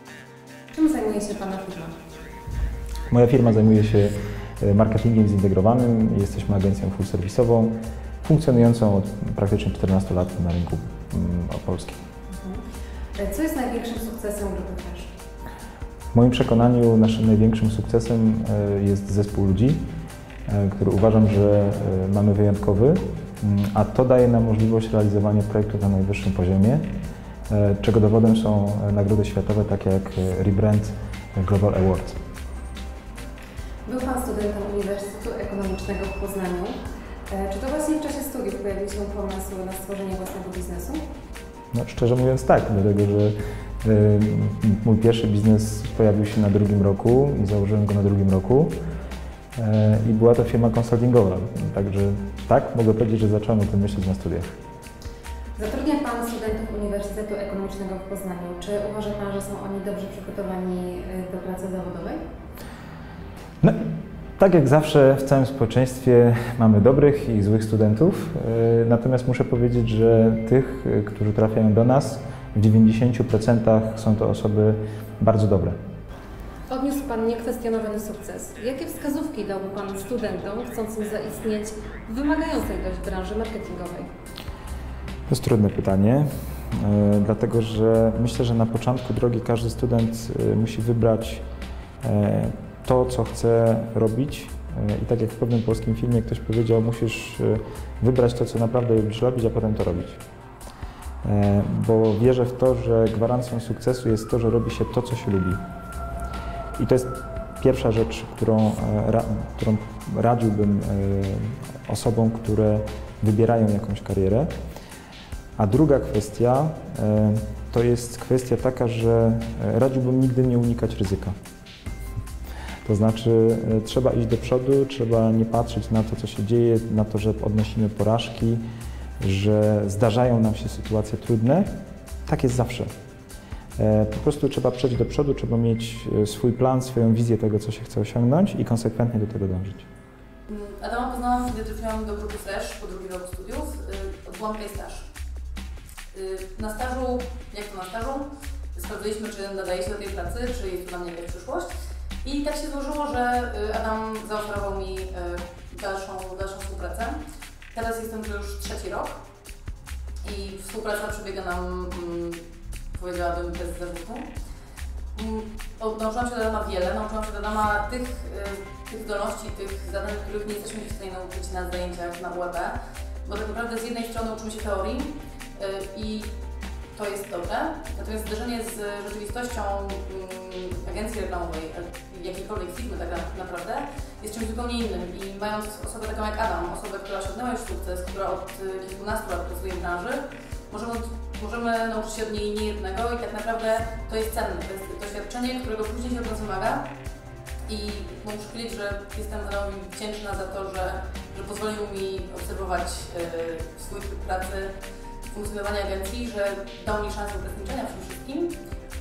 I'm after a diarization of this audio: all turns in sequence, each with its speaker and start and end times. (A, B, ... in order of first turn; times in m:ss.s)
0:00.7-0:02.0 A
0:03.1-0:12.0 B
0:12.3-0:12.6 A
0:13.2-0:15.1 A
0:16.1-0:19.9 B
0:20.5-0:26.9 B
0:27.5-0:32.2 B
0:33.8-0:41.1 A
0:41.7-0:48.8 B
0:49.6-0:54.6 B
0:55.6-1:02.2 A
1:03.6-1:03.9 B
1:04.4-1:15.8 B
1:16.7-1:24.1 A
1:25.3-1:31.4 B
1:32.0-1:40.2 B
1:41.2-1:45.6 B
1:46.8-1:54.5 B
1:55.6-2:01.3 B
2:02.8-2:08.6 B
2:09.2-2:11.7 B
2:12.3-2:12.9 B
2:13.8-2:19.9 B
2:20.5-2:25.1 C
2:26.1-2:31.7 C
2:32.2-2:37.2 C
2:37.7-2:39.2 C
2:40.2-2:44.3 C
2:45.2-2:56.3 C
2:56.9-3:16.9 C
3:17.7-3:24.8 C
3:25.3-3:28.6 C